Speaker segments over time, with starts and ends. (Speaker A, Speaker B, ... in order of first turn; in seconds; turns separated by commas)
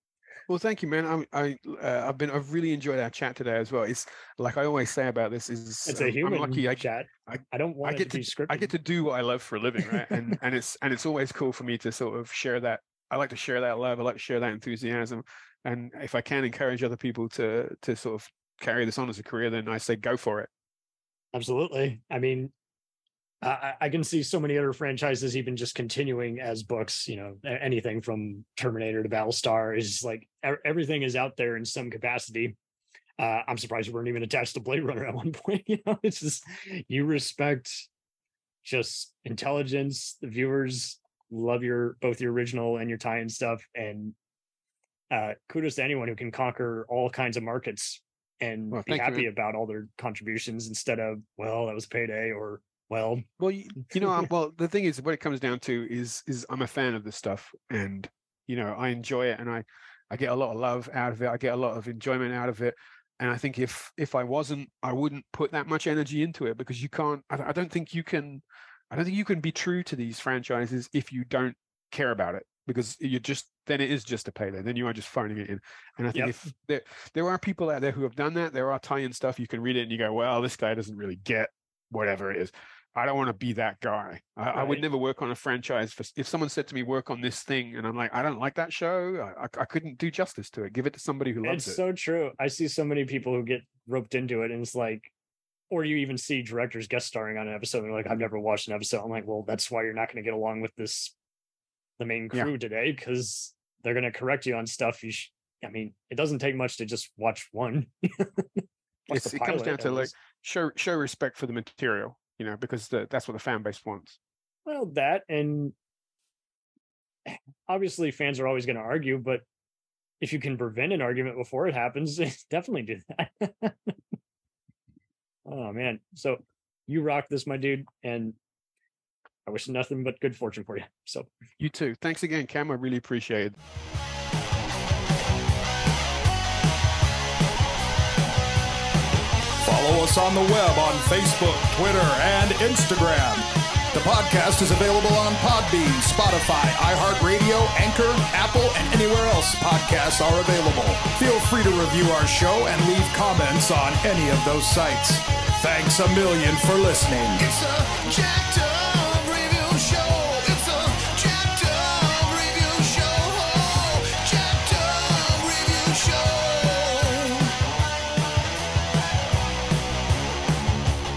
Speaker A: 0.5-20.5, Speaker B: 5.9-8.7, Speaker B: 9.9-10.3, Speaker B: 21.3-22.5, Speaker B: 23.4-32.6, Speaker B: 33.2-37.9, Speaker B: 38.6-44.1, Speaker B: 45.1-53.3, Speaker A: 48.7-49.3, Speaker A: 53.4-91.8, Speaker B: 53.9-54.3, Speaker B: 84.5-84.8, Speaker B: 91.4-95.1, Speaker B: 95.7-101.1, Speaker B: 102.0-110.1, Speaker A: 109.1-114.2, Speaker B: 114.7-115.8, Speaker B: 117.3-119.4, Speaker B: 120.2-124.0, Speaker B: 125.5-128.4, Speaker B: 129.5-131.3, Speaker A: 131.6-133.6, Speaker C: 139.6-157.5, Speaker D: 157.4-167.5